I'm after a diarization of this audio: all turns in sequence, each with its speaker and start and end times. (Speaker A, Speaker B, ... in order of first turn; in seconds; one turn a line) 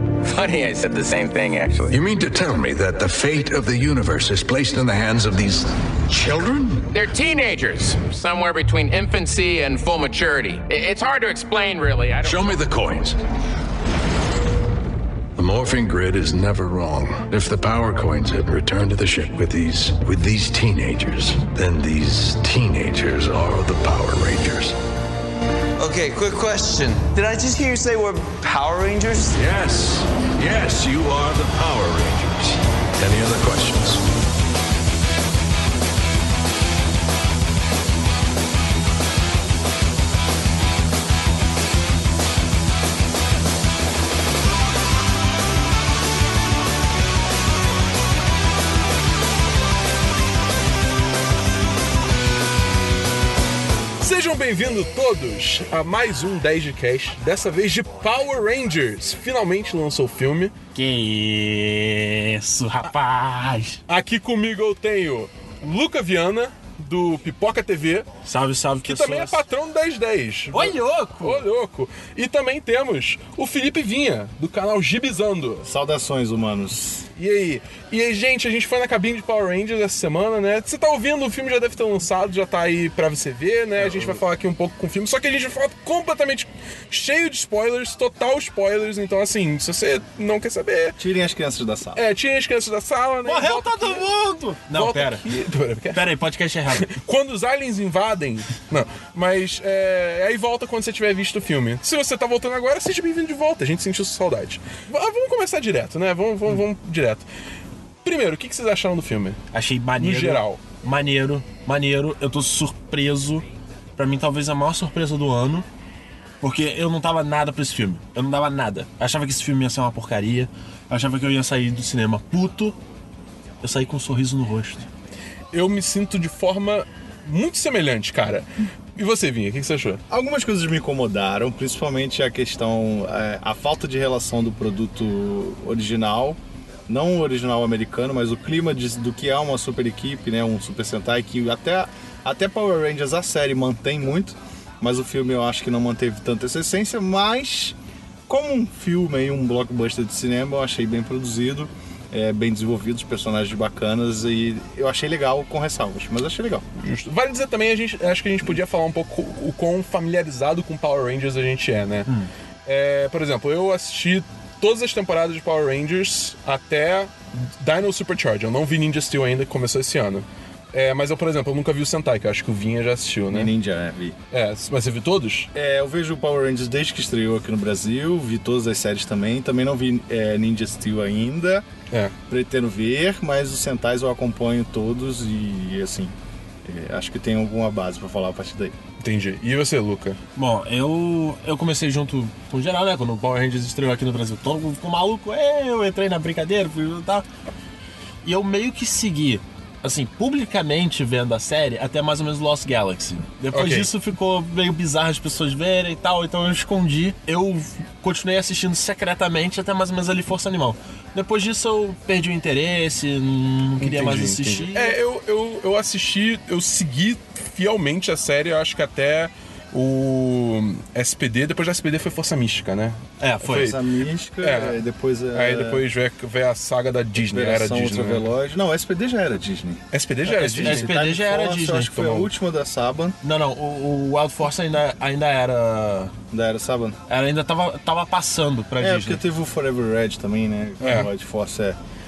Speaker A: 0.2-2.0
Speaker B: 1.9-6.9
Speaker A: 6.9-12.6
Speaker B: 12.2-13.2
Speaker B: 15.4-24.8
Speaker C: 25.8-29.4
Speaker B: 29.4-34.0
Speaker D: 54.0-60.5
Speaker E: 60.7-63.8
Speaker D: 63.9-68.1
Speaker E: 68.2-69.4
Speaker D: 68.8-75.7
Speaker E: 70.5-71.4
Speaker F: 75.6-77.1
Speaker D: 77.2-91.0
Speaker F: 91.0-92.0
Speaker D: 92.0-94.1
Speaker E: 93.2-95.2
Speaker D: 94.7-96.1
Speaker E: 95.9-96.9
Speaker D: 96.7-107.2
Speaker D: 108.0-109.4
Speaker E: 109.5-113.5
Speaker D: 110.0-110.6
Speaker E: 114.0-115.7
Speaker E: 116.4-122.8
Speaker E: 123.6-124.9
Speaker D: 125.5-130.0
Speaker F: 130.1-147.8
Speaker F: 148.3-156.7
Speaker D: 156.8-162.1
Speaker D: 162.7-173.5
Speaker F: 173.3-174.2
Speaker D: 174.3-175.5
Speaker F: 175.5-181.7
Speaker F: 182.3-188.8
Speaker D: 189.0-190.2
Speaker E: 190.4-197.3
Speaker E: 198.2-215.0
Speaker D: 203.5-203.9
Speaker D: 213.8-223.8
Speaker E: 223.2-223.8
Speaker F: 223.5-225.8
Speaker D: 224.4-228.3
Speaker F: 227.2-229.8
Speaker D: 229.9-230.9
Speaker E: 230.3-232.3
Speaker F: 230.4-233.2
Speaker E: 233.2-236.1
Speaker F: 236.3-237.0
Speaker E: 237.1-239.2
Speaker F: 238.8-241.8
Speaker D: 240.8-241.1